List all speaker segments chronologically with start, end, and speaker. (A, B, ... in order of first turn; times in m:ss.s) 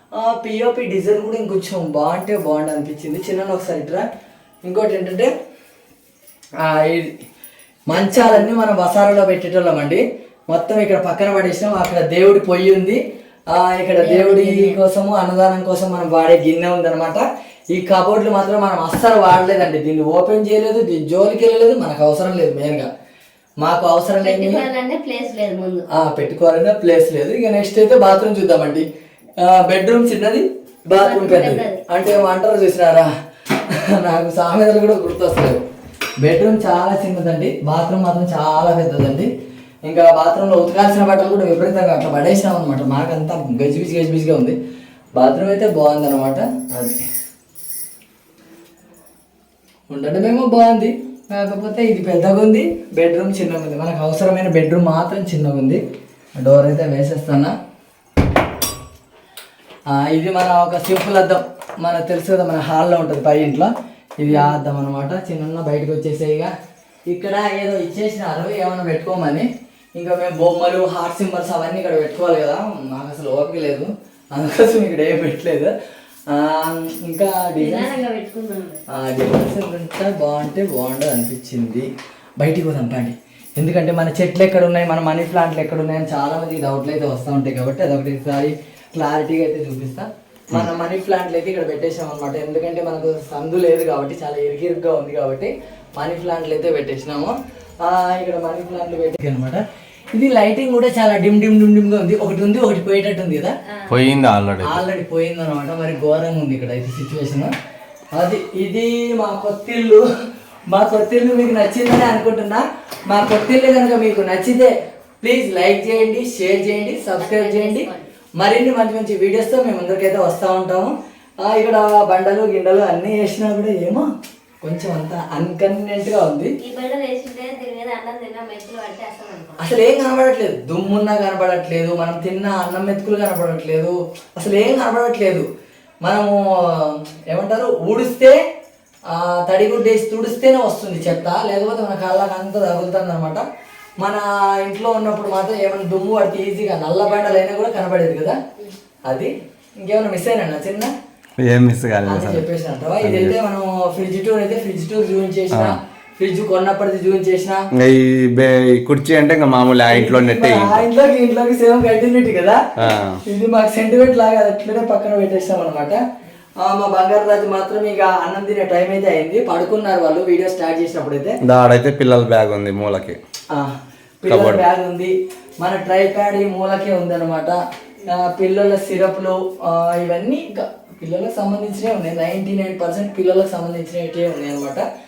0:00.2-0:04.0 A
0:04.6-0:05.3 A
0:06.6-0:07.1 A
0:07.9-0:13.0 A
0:07.9-0:08.5 B
0:13.5-0:22.9 A
0:14.0-0:14.8 B
0:23.6-0:24.6 A
0:24.2-0:25.9 B
0:25.9-0:28.8 A
0:29.4-0:33.1 A
0:30.9-0:31.8 B
0:33.7-0:35.6 A
0:36.2-0:39.3 A
0:39.8-0:44.6 A
0:45.2-0:47.1 A
0:49.9-0:55.8 A
0:56.4-0:57.5 A
0:59.9-1:06.5 A
1:04.3-1:04.6 B
1:07.1-1:15.7 A
1:16.3-1:17.9 A
1:17.6-1:18.8 B
1:18.9-1:21.9 A
1:22.4-1:39.6 A
1:40.1-1:43.5 A
1:43.9-1:44.8 C
1:44.6-1:47.5 A
1:48.2-1:50.0 A
1:50.7-1:57.8 A
1:56.2-1:58.1 B
1:58.4-2:00.9 A
2:01.4-2:04.0 A
2:04.6-2:06.5 A
2:06.6-2:09.6 B
2:09.6-2:15.5 A
2:16.0-2:18.4 A
2:19.1-2:23.4 A
2:24.0-2:28.4 A
2:29.8-2:30.9 A
2:31.4-2:32.4 C
2:32.0-2:37.6 A
2:33.0-2:33.4 C
2:35.5-2:35.8 C
2:37.7-2:40.8 C
2:39.9-2:42.6 A
2:42.8-2:43.2 C
2:43.2-2:46.0 A
2:46.6-2:51.4 A
2:51.4-2:53.2 C
2:53.5-2:57.6 A
2:54.3-2:54.6 C
2:58.1-3:04.8 A